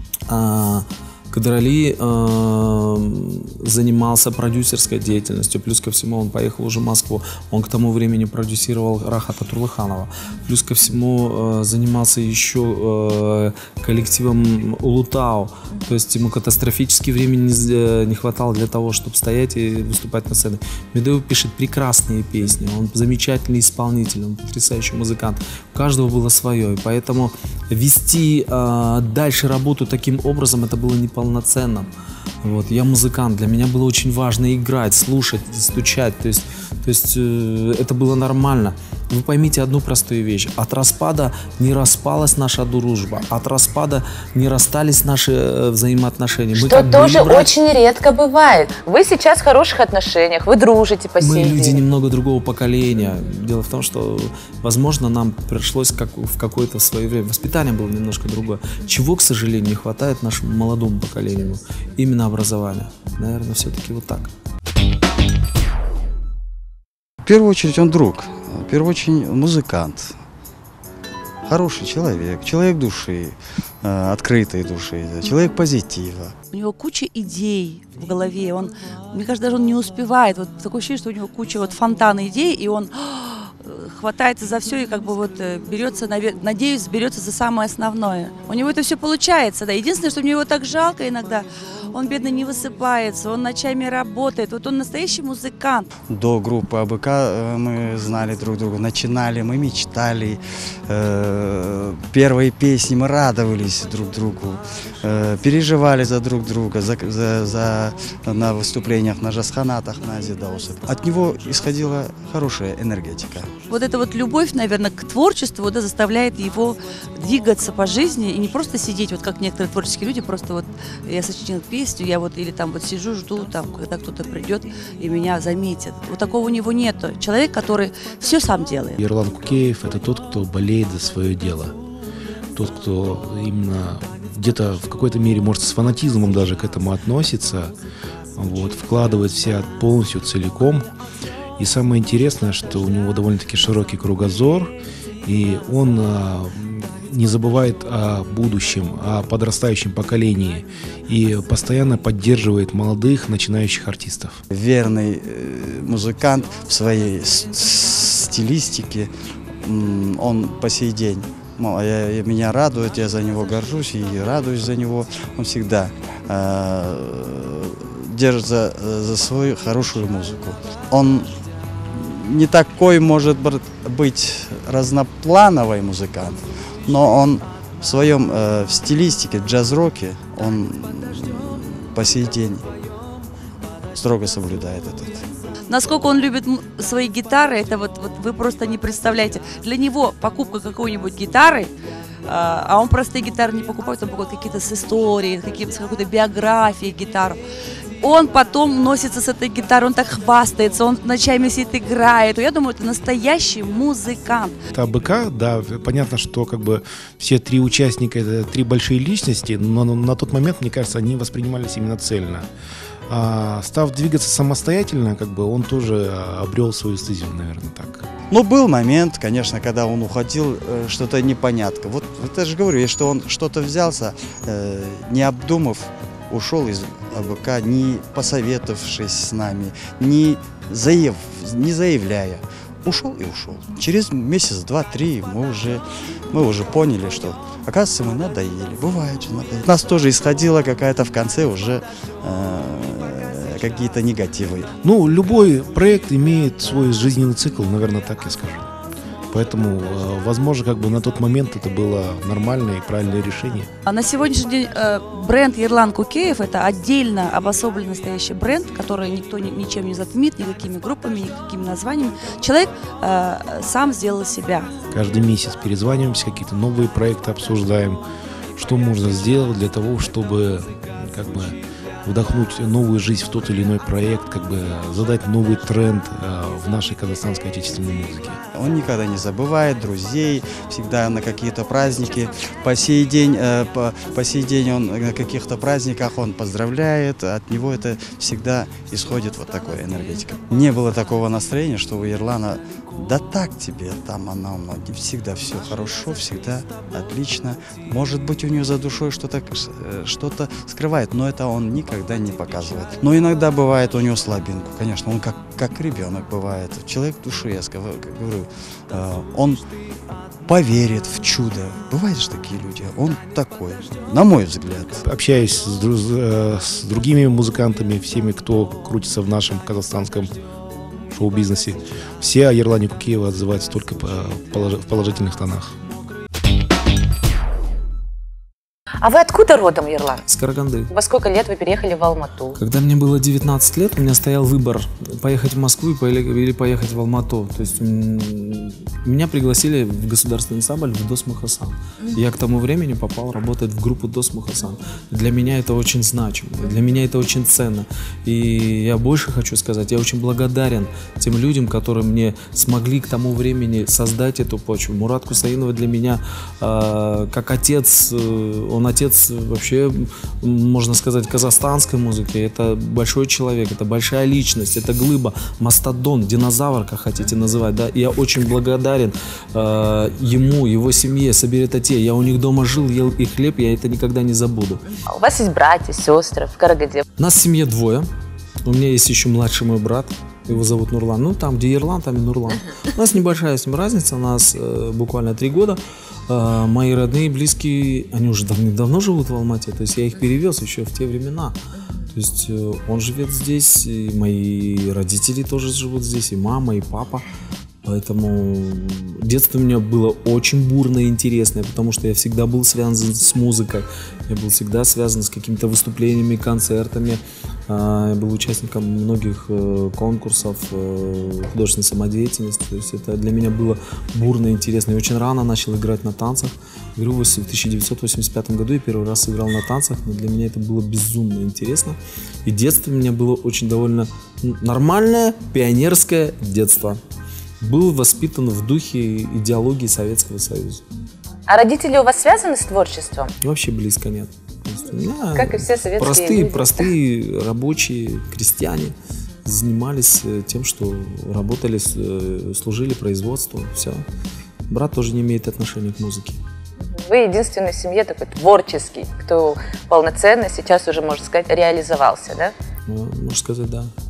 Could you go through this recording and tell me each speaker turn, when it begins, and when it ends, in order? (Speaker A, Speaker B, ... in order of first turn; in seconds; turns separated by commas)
Speaker A: 0.3-47.5, Speaker B: 46.5-51.8, Speaker A: 51.2-64.3, Speaker C: 67.2-70.1, Speaker C: 71.5-76.3, Speaker D: 76.5-95.9, Speaker C: 96.1-113.5, Speaker D: 113.7-129.0, Speaker E: 129.0-131.8, Speaker E: 132.5-137.8, Speaker E: 138.4-140.9, Speaker E: 141.6-144.7, Speaker E: 145.2-154.4, Speaker C: 154.5-159.1, Speaker C: 159.6-171.3, Speaker C: 171.9-182.7, Speaker C: 183.9-185.2, Speaker D: 185.7-191.7, Speaker D: 192.3-197.4, Speaker D: 198.0-204.6, Speaker E: 204.7-212.5, Speaker E: 213.1-218.1, Speaker C: 218.3-244.7, Speaker E: 244.8-248.7, Speaker E: 249.3-253.7, Speaker D: 253.9-264.7, Speaker E: 264.9-268.0, Speaker E: 268.6-278.4, Speaker C: 278.5-309.6, Speaker C: 310.4-315.0, Speaker E: 315.0-320.3, Speaker E: 321.1-325.8, Speaker B: 329.0-330.2, Speaker A: 330.3-330.9, Speaker B: 330.9-332.6, Speaker A: 332.6-374.9, Speaker B: 375.1-377.0, Speaker A: 377.2-378.1, Speaker A: 378.6-397.3, Speaker A: 397.9-427.0, Speaker A: 427.6-430.8, Speaker B: 431.5-433.3, Speaker A: 433.4-444.1, Speaker B: 435.4-436.9, Speaker A: 444.7-446.4, Speaker B: 446.8-452.5, Speaker A: 452.9-453.9